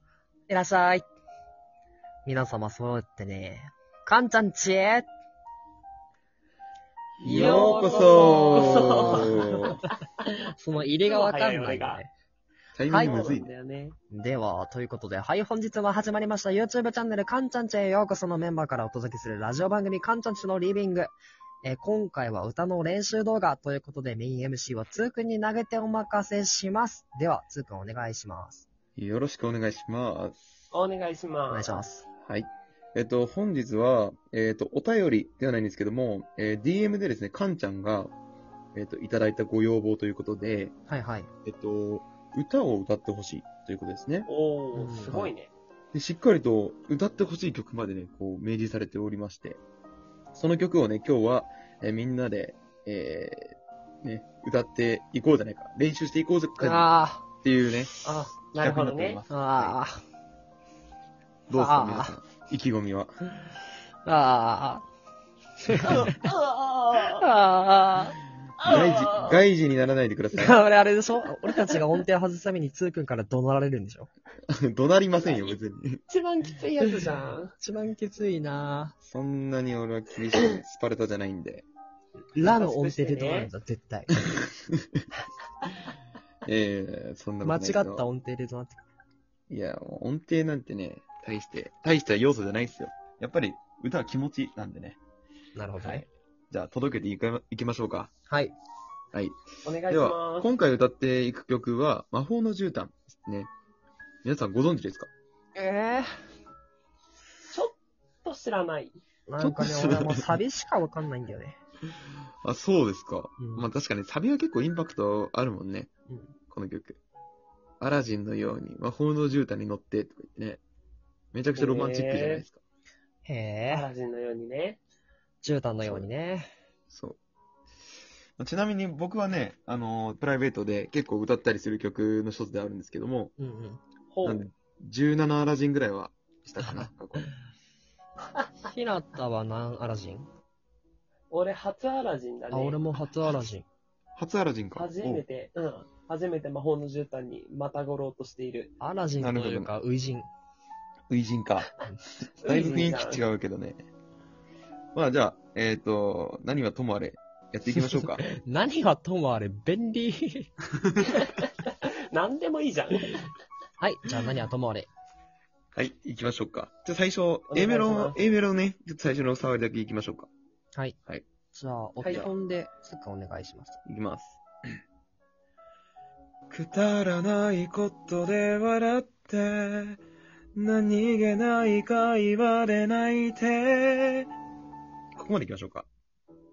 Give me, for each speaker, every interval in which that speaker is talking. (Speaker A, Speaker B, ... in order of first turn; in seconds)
Speaker A: 0.5-1.0, 2.2-5.1, 7.2-9.7, 10.6-12.1, 12.9-13.2, 14.1-21.1, 21.6-28.6, 31.5-32.1, 40.9-41.3, 44.7-45.2, 56.6-57.2, 59.3-60.0, 61.5-62.1, 64.0-64.8, 65.6-66.2, 67.0-68.2, 70.3-74.1, 77.6-79.0, 82.3-84.2, 87.4-88.8, 95.5-96.0, 98.3-98.5, 105.5-106.2, 109.3-111.6, 113.4-113.7, 123.2-123.9, 125.4-126.5, 133.4-133.8, 138.6-140.3, 142.5-143.7, 148.8-150.3, 157.7-160.5, 163.8-164.9, 171.5-173.8
Speaker B: 7.2-9.8, 12.7-13.5, 28.9-30.5, 32.2-38.1, 38.7-40.7, 41.4-44.3, 45.9-49.6, 50.3-56.9, 57.4-57.9, 58.5-59.8, 61.5-63.1, 68.7-70.6, 74.5-76.0, 79.0-81.7, 86.5-88.1, 89.5-95.0, 95.8-98.1, 99.1-103.5, 104.2-105.1, 109.4-110.4, 112.4-115.9, 116.5-117.0, 117.8-120.6, 121.3-122.6, 125.8-126.1, 126.9-127.2, 128.4-133.3, 134.2-137.3, 144.2-145.2, 149.2-149.7, 151.1-151.7, 152.4-153.8, 154.9-158.2, 165.7-170.3, 173.8-174.4, 176.5-180.0, 180.6-184.3, 185.2-185.9
Speaker C: 7.2-9.4, 11.0-12.0, 12.9-13.9, 30.7-31.8, 44.2-45.5, 58.0-59.2, 65.8-67.2, 68.6-69.4, 71.5-71.8, 75.2-77.5, 82.4-83.5, 99.6-100.5, 107.5-109.0, 121.5-122.4, 123.7-124.8, 134.1-134.5, 141.3-142.8, 144.7-148.7, 152.4-153.2, 161.2-163.3, 167.5-168.2, 172.0-172.3